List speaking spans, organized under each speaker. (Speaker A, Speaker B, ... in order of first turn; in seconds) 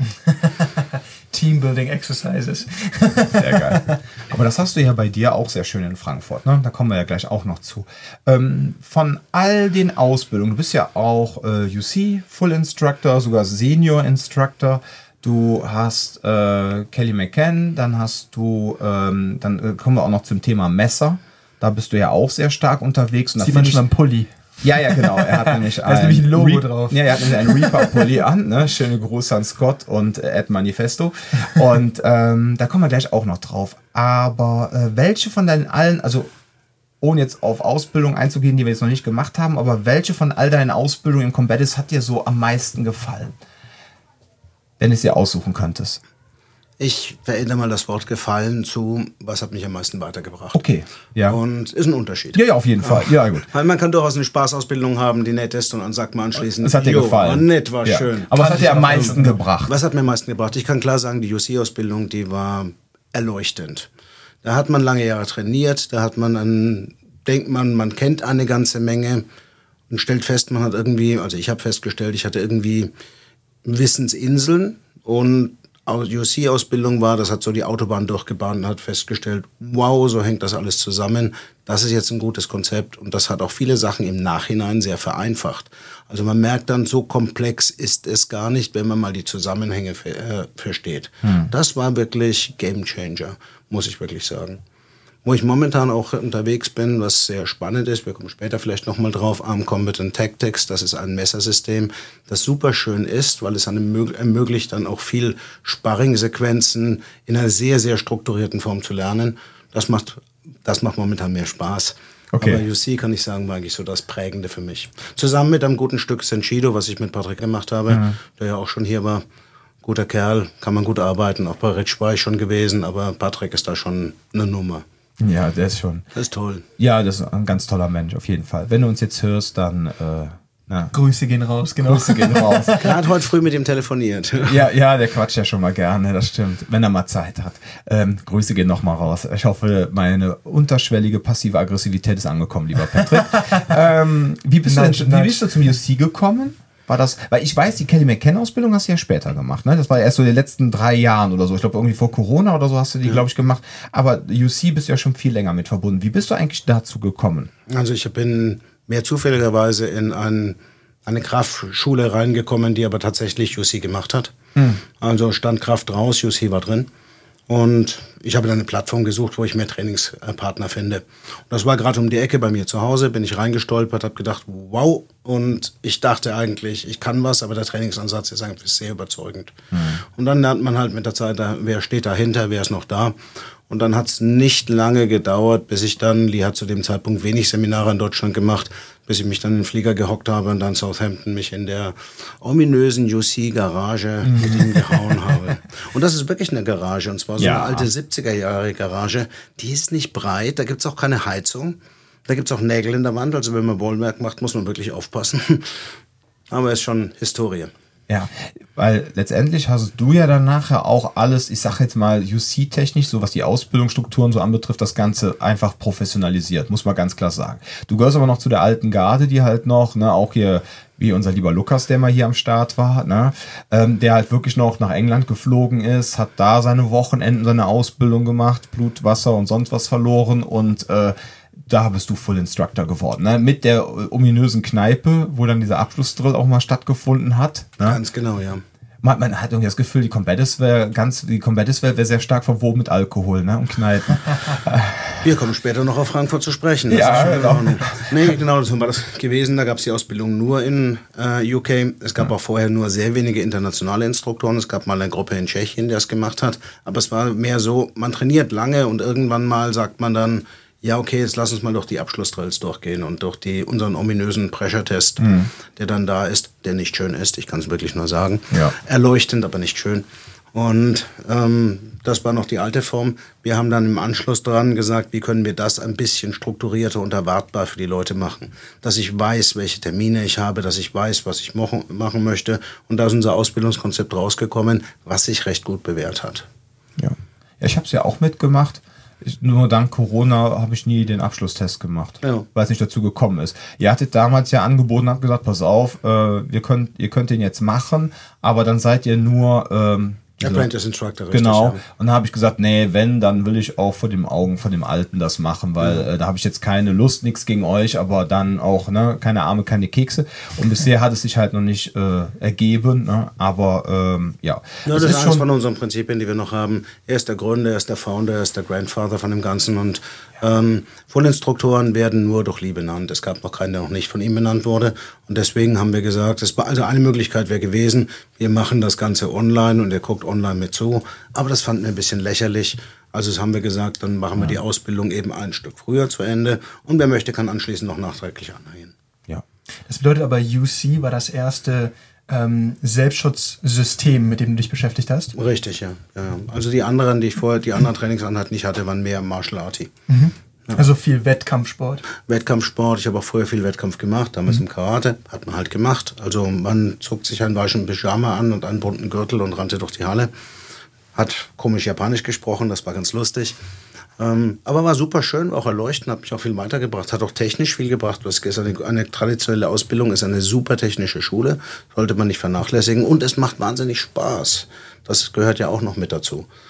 Speaker A: 0.2-4.0, 23.4-24.3, 24.8-28.1, 58.4-59.4, 130.9-133.0, 143.3-143.6, 144.7-145.6, 339.9-345.4, 350.1-352.1
Speaker B: 3.3-23.8, 24.6-36.3, 37.0-43.4, 44.8-46.0, 50.5-51.4, 52.3-53.5, 56.6-59.8, 91.2-91.5, 112.3-112.6, 117.9-118.2, 125.2-126.0, 126.8-130.9, 131.8-132.8, 134.4-157.5, 164.6-164.8, 179.7-180.0, 194.2-194.9, 197.4-197.9, 208.1-238.0, 239.0-245.2, 246.9-247.9, 265.2-265.5, 287.0-300.7, 301.3-315.4
Speaker C: 46.8-50.6, 51.3-58.3, 58.9-59.1, 59.6-63.9, 64.4-69.3, 69.9-72.9, 73.6-94.6, 95.2-119.2, 119.8-124.8, 126.1-126.7, 132.8-134.6, 157.7-164.3, 164.9-166.9, 167.5-183.2, 183.7-201.8, 202.3-206.0, 206.5-207.7, 237.8-238.6, 245.2-286.5, 300.4-301.8, 305.8-306.1, 314.9-338.9, 345.4-349.9, 352.2-360.3, 361.1-363.6, 364.2-376.5